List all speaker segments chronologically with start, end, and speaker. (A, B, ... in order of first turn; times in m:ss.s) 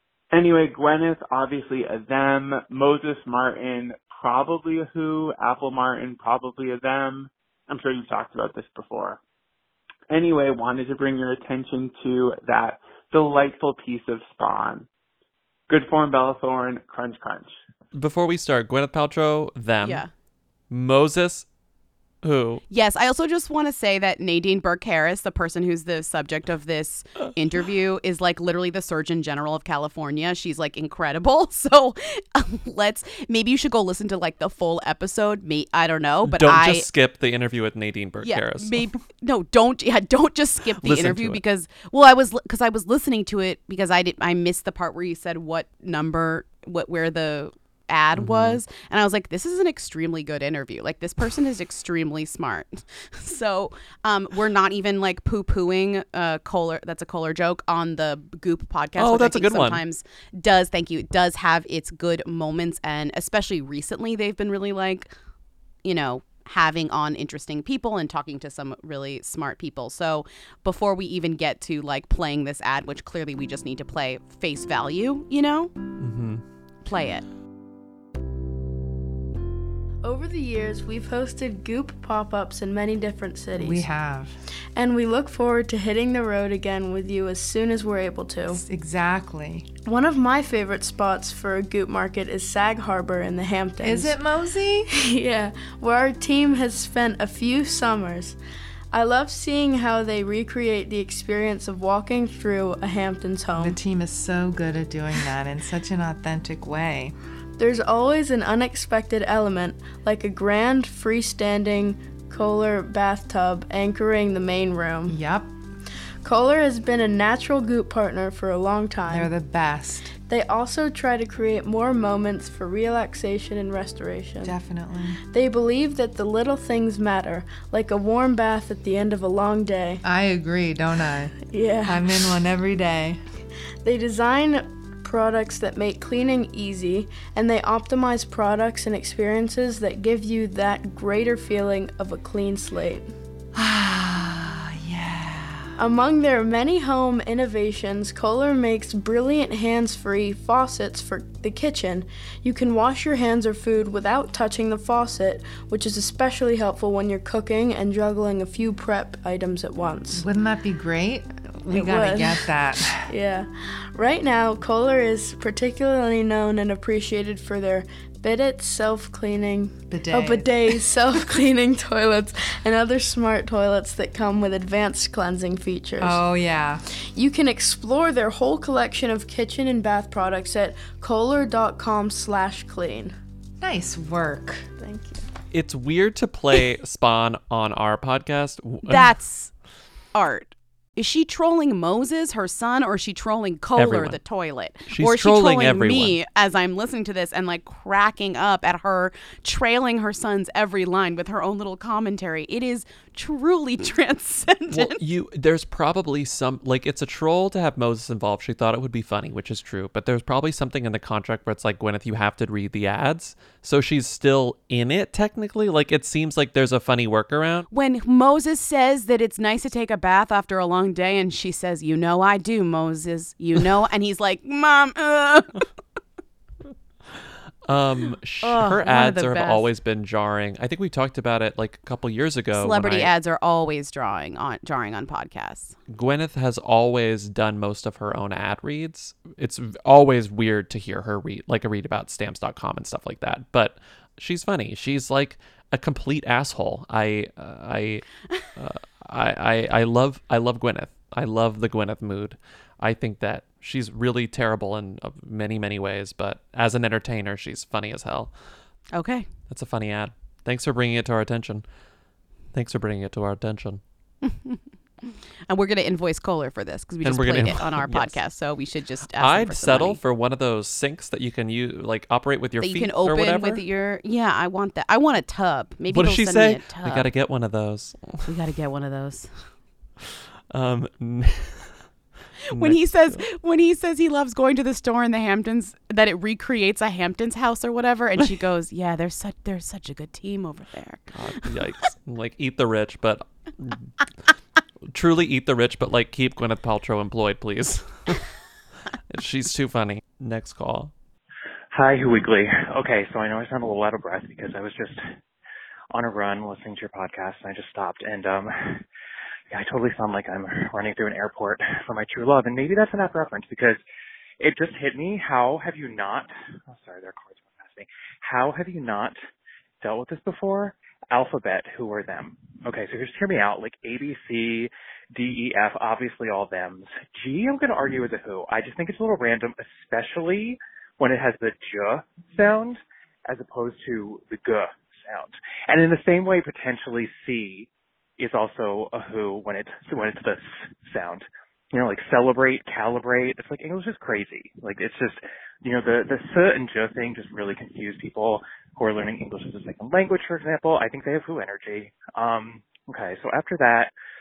0:00.3-0:09.2 A
0:10.1-0:14.9 A
0:15.7-0:17.6 A
0:17.9-0:20.0 B
0:19.8-0:20.1 C
0:20.7-0:21.4 B
0:22.2-0:22.6 B
0:22.7-0:36.8 C
0:36.2-0:38.8 B
0:38.2-1:05.1 C
0:40.8-0:41.4 B
0:48.1-0:48.6 B
0:59.0-0:59.8 B
1:05.8-1:15.7 C
1:16.0-1:16.4 B
1:16.8-1:17.2 C
1:20.0-1:23.9 D
1:23.6-1:24.4 E
1:24.7-1:28.6 D
1:28.5-1:29.6 E
1:29.8-1:34.2 D
1:33.8-1:34.8 E
1:34.9-1:38.4 D
1:38.9-1:43.8 D
1:43.5-1:47.1 E
1:47.6-1:55.2 D
1:55.1-1:55.5 E
1:56.2-1:59.3 D
1:59.1-2:00.1 E
2:00.3-2:04.6 D
2:04.4-2:05.2 E
2:05.2-2:10.0 D
2:10.0-2:13.2 E
2:11.4-2:12.4 D
2:13.8-2:23.1 D
2:23.5-2:25.7 E
2:25.8-2:40.2 D
2:40.1-2:43.1 E
2:41.7-2:42.6 D
2:43.1-2:56.2 D
2:49.9-2:50.9 E
2:56.0-2:56.8 E
2:57.1-3:03.1 D
3:03.6-3:04.7 E
3:04.8-3:05.2 C
3:05.5-3:09.1 B
3:08.9-3:09.5 C
3:10.1-3:25.0 C
3:13.8-3:14.2 B
3:14.9-3:16.2 B
3:24.7-3:37.6 B
3:37.7-3:45.5 C
3:47.6-3:53.1 B
3:48.4-3:49.6 C
3:52.5-3:55.8 C
3:55.9-4:18.3 B
4:18.9-4:19.2 C
4:19.5-4:21.6 B
4:22.5-4:23.8 B
4:24.2-4:30.0 C
4:27.0-4:28.2 B
4:29.2-4:33.6 B
4:32.6-4:37.1 C
4:35.9-4:38.2 B
4:38.2-4:39.5 C
4:40.5-4:41.7 B
4:42.5-4:43.2 B
4:42.5-4:51.5 C
4:51.1-4:53.9 B
4:54.9-4:58.2 B
4:59.1-5:00.9 B
5:01.7-5:05.0 F
5:05.9-5:08.8 F
5:09.5-5:13.8 F
5:14.4-5:19.2 F
5:19.8-5:53.9 F